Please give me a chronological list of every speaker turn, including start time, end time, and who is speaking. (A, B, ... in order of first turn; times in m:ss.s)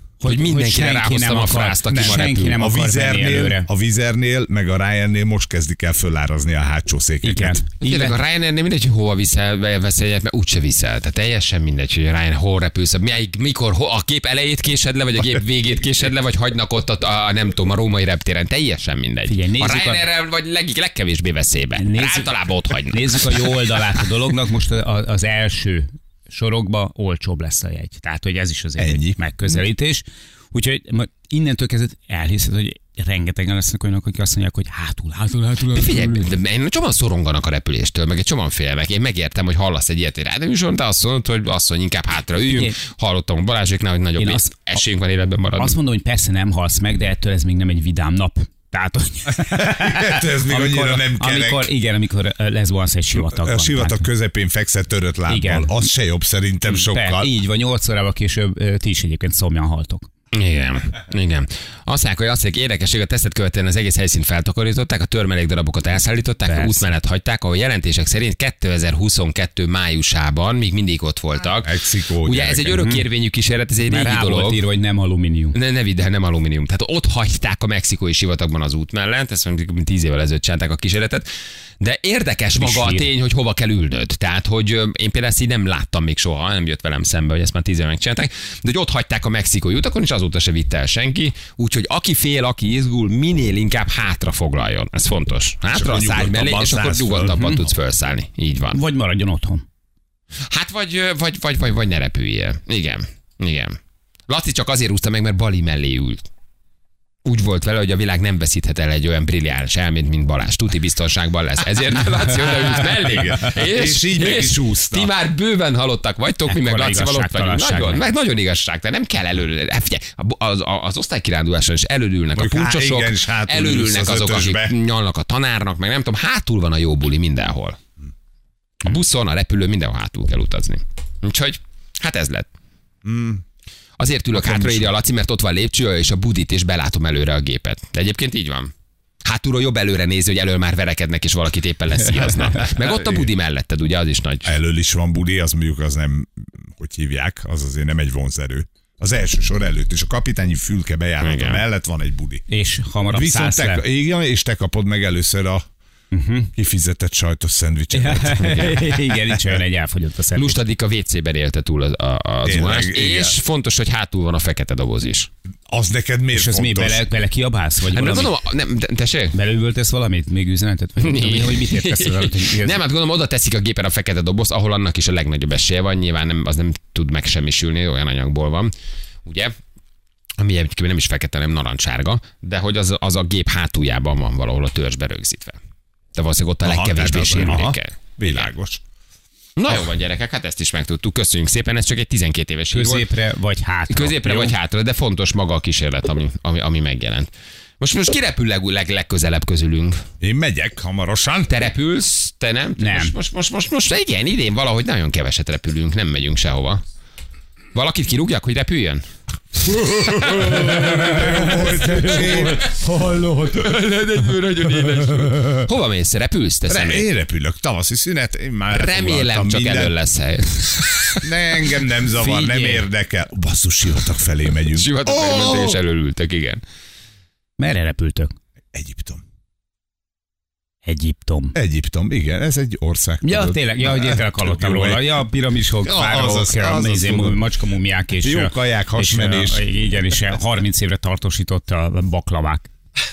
0:00.2-0:03.7 A
0:00.2-0:02.6 B
0:01.9-0:07.6 C
0:07.2-0:08.2 A
0:07.8-0:23.6 B
0:19.3-0:20.0 A
0:21.8-0:36.3 A
0:28.8-0:29.2 C
0:35.7-0:45.8 B
0:42.5-0:42.8 A
0:44.2-0:44.8 A
0:45.6-0:54.1 A
0:49.3-0:51.7 C
0:53.1-0:57.3 C
0:55.3-0:55.9 A
0:56.7-1:00.0 A
1:00.3-1:14.6 B
1:06.5-1:06.9 A
1:11.6-1:12.8 C
1:12.7-1:13.0 A
1:13.9-1:15.6 A
1:15.5-1:21.3 B
1:21.8-1:38.8 B
1:22.6-1:23.1 A
1:35.7-1:37.6 C
1:37.3-1:37.6 A
1:38.7-1:39.6 A
1:40.5-1:43.8 B
1:44.3-1:46.3 B
1:47.2-2:07.8 B
1:52.4-1:55.1 C
1:56.5-1:58.1 A
2:02.4-2:04.8 C
2:08.8-2:12.5 B
2:13.0-2:13.4 C
2:14.0-2:18.7 B
2:14.3-2:14.9 C
2:19.3-2:24.6 B
2:24.4-2:32.4 C
2:31.2-2:31.6 B
2:32.5-2:33.8 A
2:33.1-2:35.7 C
2:36.1-2:36.5 A
2:36.6-2:38.7 C
2:37.9-2:40.6 A
2:38.4-2:39.1 B
2:40.3-2:45.3 B
2:42.4-2:43.4 C
2:45.7-2:47.1 C
2:46.3-2:48.3 A
2:47.9-2:49.4 B
2:49.3-2:52.8 A
2:51.0-2:58.7 B
2:59.3-2:59.5 B
3:00.4-3:05.6 B
3:06.2-3:08.5 B
3:06.6-3:08.8 C
3:09.6-3:13.1 B
3:12.7-3:14.6 A
3:13.9-3:20.0 B
3:20.2-3:21.6 C
3:21.5-3:26.8 B
3:22.8-3:23.2 A
3:27.7-3:29.0 B
3:29.7-3:33.4 C
3:30.1-3:31.3 B
3:30.8-3:33.2 A
3:33.5-3:37.1 B
3:36.7-3:40.0 C
3:38.7-3:41.3 B
3:41.2-3:45.8 C
3:42.2-3:42.9 A
3:44.7-3:46.6 B
3:47.6-3:48.3 A
3:48.7-3:49.2 C
3:50.8-3:51.6 A
3:51.6-3:55.1 C
3:53.2-4:02.7 A
3:55.8-3:57.4 C
3:58.2-3:59.7 C